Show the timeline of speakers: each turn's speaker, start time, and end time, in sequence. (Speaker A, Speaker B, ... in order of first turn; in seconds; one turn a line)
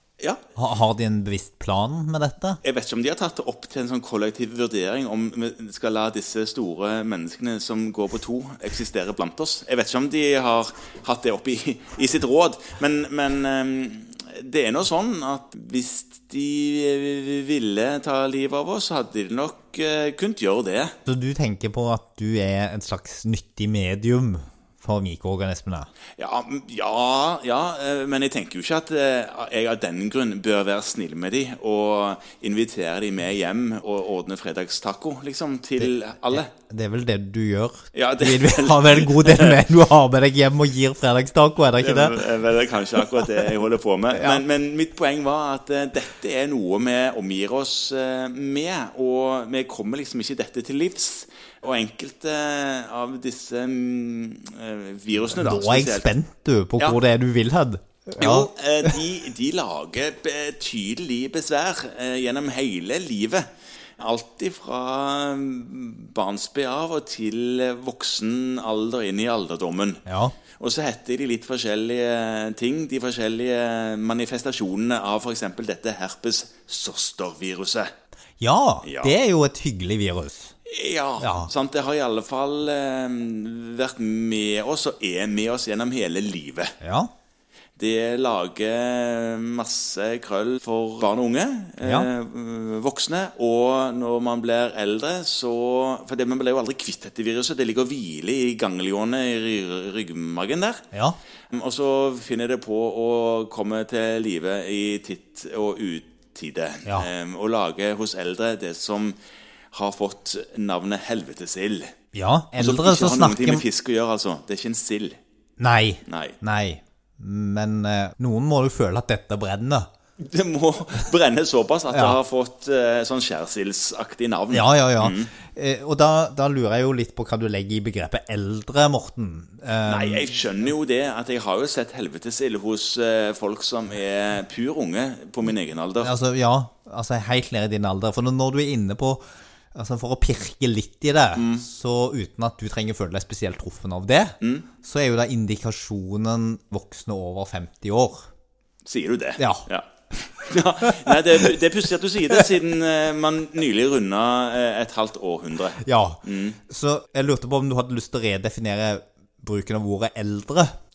Speaker A: 0.6-2.6
Speaker B: 2.6-20.9
Speaker A: 21.1-25.9
Speaker B: 26.2-36.5
Speaker A: 35.8-42.3
Speaker B: 37.9-39.6
Speaker B: 41.8-56.1
Speaker A: 43.0-43.5
Speaker A: 44.1-44.4
Speaker A: 55.3-58.5
Speaker B: 58.2-63.5
Speaker B: 64.0-77.9
Speaker A: 70.0-70.3
Speaker A: 78.4-80.5
Speaker B: 78.8-79.2
Speaker B: 80.7-86.8
Speaker A: 81.2-81.5
Speaker A: 86.8-87.1
Speaker B: 87.8-100.9
Speaker A: 91.8-92.1
Speaker B: 101.5-109.2
Speaker B: 109.7-111.9
Speaker A: 112.1-113.7
Speaker B: 112.5-115.2
Speaker A: 115.6-119.9
Speaker B: 116.1-116.4
Speaker B: 120.2-125.3
Speaker A: 121.9-122.2
Speaker A: 124.5-130.3
Speaker B: 129.8-136.1
Speaker A: 136.0-148.3
Speaker B: 141.3-141.7
Speaker B: 144.4-144.7
Speaker B: 148.8-156.6
Speaker A: 149.4-149.7
Speaker A: 155.8-160.7